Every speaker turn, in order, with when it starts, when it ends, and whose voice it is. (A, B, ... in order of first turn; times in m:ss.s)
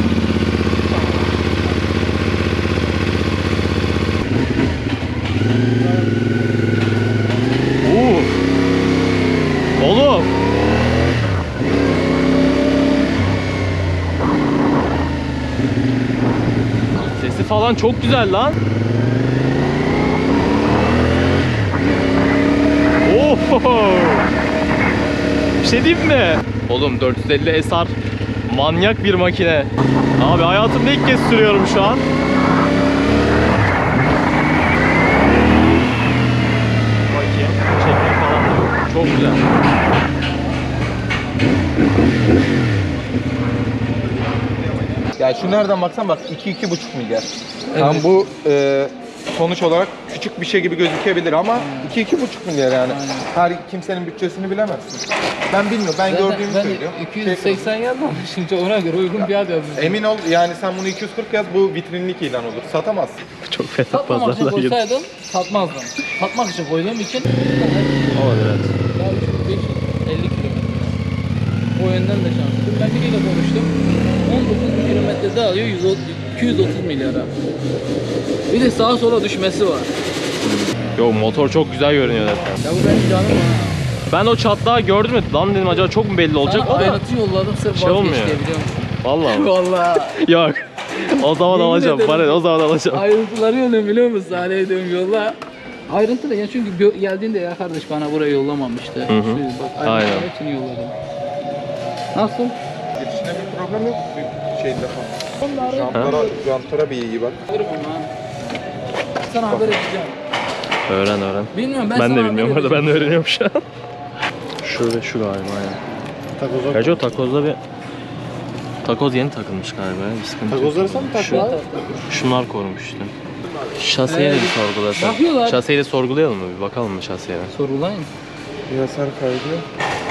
0:07.8-0:08.4 A
0:09.8-0:10.3 A
0:17.0-0:18.6 A
0:23.0-0:24.3 A
0:25.6-0:27.9 A
0:28.5-0:32.0 A
0:37.1-0:39.4 A
0:45.1-0:57.7 B
0:47.7-0:48.1 C
0:51.5-0:52.0 C
0:52.9-0:53.3 C
0:56.0-1:00.0 C
0:59.2-1:03.2 B
1:03.4-1:04.8 A
1:03.9-1:08.2 C
1:08.1-1:08.7 A
1:08.9-1:11.0 C
1:11.7-1:17.3 C
1:18.5-1:19.9 C
1:20.4-1:22.6 A
1:22.6-1:23.8 C
1:24.1-1:27.0 A
1:26.4-1:30.2 C
1:27.7-1:28.4 A
1:29.0-1:33.0 A
1:31.3-1:41.0 C
1:39.1-1:40.3 A
1:42.1-1:42.6 C
1:43.0-1:47.4 B
1:45.4-1:46.3 C
1:47.5-1:48.1 C
1:49.2-1:50.2 C
1:49.5-1:49.8 B
1:50.9-1:53.6 A
1:51.5-1:53.2 C
1:54.6-1:55.8 A
1:56.7-1:57.6 A
1:58.8-2:01.5 A
2:00.7-2:00.9 B
2:01.0-2:02.0 C
2:02.0-2:03.1 A
2:03.7-2:07.5 A
2:04.0-2:05.6 C
2:07.5-2:08.1 C
2:08.7-2:09.6 B